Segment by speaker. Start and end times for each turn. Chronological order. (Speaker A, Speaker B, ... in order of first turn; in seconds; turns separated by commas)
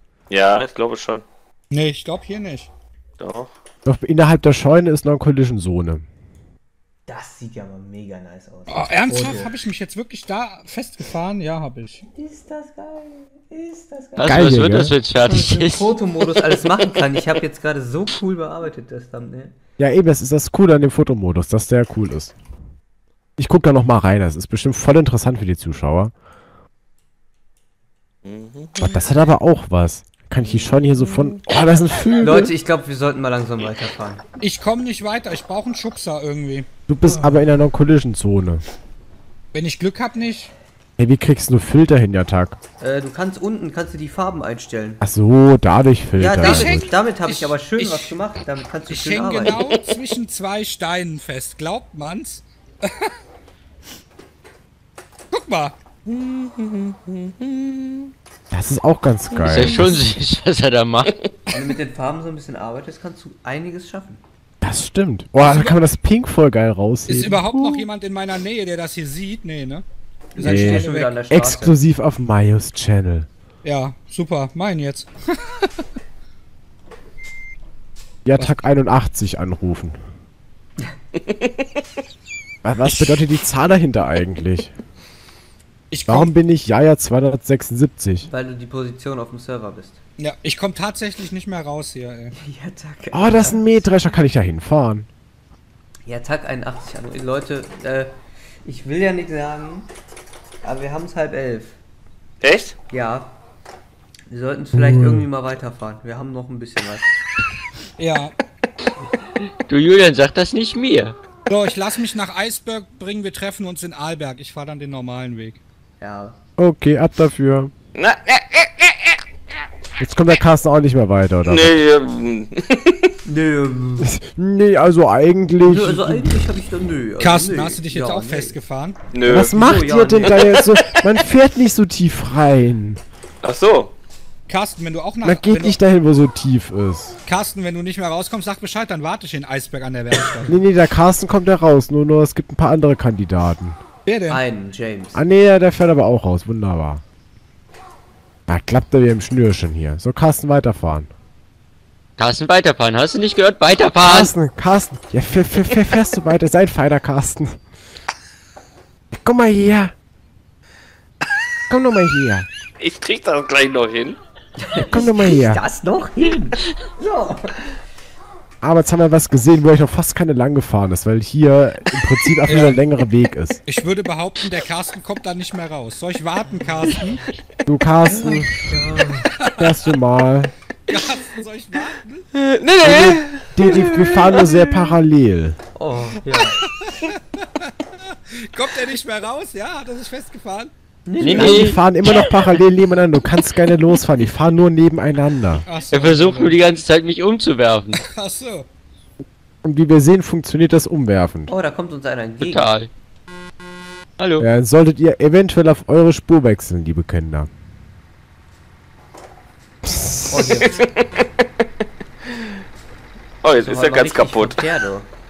Speaker A: 0.3-1.2, Speaker B: 1.7-2.7, Speaker A: 3.2-3.5, Speaker C: 3.8-6.0, Speaker D: 7.1-9.5, Speaker B: 8.7-12.0, Speaker D: 12.1-14.6, Speaker E: 14.2-15.9, Speaker C: 14.2-14.9, Speaker D: 15.2-19.5, Speaker C: 19.8-22.3, Speaker C: 23.4-26.1, Speaker A: 28.2-29.1, Speaker C: 28.8-32.5, Speaker A: 30.4-31.3, Speaker D: 32.2-34.2, Speaker B: 34.4-36.7, Speaker C: 36.9-38.6, Speaker B: 39.5-40.5, Speaker C: 41.0-42.6, Speaker D: 42.8-45.0, Speaker C: 45.0-46.9, Speaker D: 46.2-49.6, Speaker B: 46.4-48.1, Speaker B: 48.9-53.1, Speaker B: 55.3-55.7, Speaker A: 56.0-58.1, Speaker C: 58.5-59.8, Speaker A: 59.4-59.9, Speaker E: 59.4-61.1, Speaker A: 61.1-61.3, Speaker D: 61.5-64.2, Speaker C: 64.6-67.9, Speaker B: 65.4-65.8, Speaker B: 67.0-71.2, Speaker D: 70.3-71.8, Speaker C: 70.4-73.3, Speaker B: 73.6-75.8, Speaker C: 78.2-80.0, Speaker C: 82.6-84.7, Speaker B: 82.9-83.1, Speaker B: 85.9-86.3, Speaker C: 86.1-88.3, Speaker D: 88.2-90.0, Speaker B: 90.2-92.3, Speaker D: 92.3-93.8, Speaker C: 93.1-95.1, Speaker D: 96.0-99.9, Speaker D: 100.6-101.8, Speaker A: 102.4-102.8, Speaker D: 102.9-103.3, Speaker D: 104.3-107.1, Speaker C: 104.7-105.3, Speaker B: 108.0-108.3, Speaker E: 109.7-111.2, Speaker B: 111.5-115.6, Speaker D: 116.0-116.4, Speaker C: 116.6-117.7, Speaker A: 117.9-119.2, Speaker C: 120.0-121.7, Speaker A: 121.4-123.1, Speaker D: 123.2-124.1, Speaker C: 124.0-126.4, Speaker D: 125.6-128.6, Speaker B: 127.2-129.0, Speaker A: 129.1-129.6, Speaker C: 129.3-133.0, Speaker D: 129.3-130.5, Speaker A: 130.2-131.1, Speaker A: 133.4-133.9, Speaker B: 134.5-135.8, Speaker C: 135.2-137.2, Speaker B: 137.2-140.6, Speaker C: 140.4-143.8, Speaker B: 144.1-144.4, Speaker D: 144.3-145.2, Speaker C: 145.1-147.0, Speaker C: 148.5-151.1, Speaker E: 152.2-154.3, Speaker C: 154.0-157.6, Speaker C: 159.1-159.9, Speaker C: 161.7-162.5, Speaker A: 162.8-164.2, Speaker D: 164.6-167.6, Speaker C: 164.9-165.6, Speaker C: 168.6-173.6, Speaker B: 172.5-172.8, Speaker B: 173.7-177.2, Speaker C: 177.7-179.0, Speaker D: 178.0-179.3, Speaker C: 179.6-180.5, Speaker B: 180.9-182.3, Speaker A: 182.3-184.8, Speaker C: 182.8-185.6, Speaker D: 185.7-186.6, Speaker B: 186.6-190.7, Speaker D: 191.1-191.8, Speaker E: 191.2-192.5, Speaker B: 191.2-191.5, Speaker C: 191.3-195.6, Speaker B: 195.7-196.6, Speaker E: 195.9-198.0, Speaker B: 197.9-198.7, Speaker C: 199.6-201.5, Speaker D: 201.5-202.7, Speaker E: 202.4-202.9, Speaker E: 204.2-204.4, Speaker C: 204.4-207.5, Speaker C: 209.8-210.7, Speaker D: 210.3-210.7, Speaker A: 210.6-211.4, Speaker A: 213.4-214.7, Speaker D: 213.5-215.1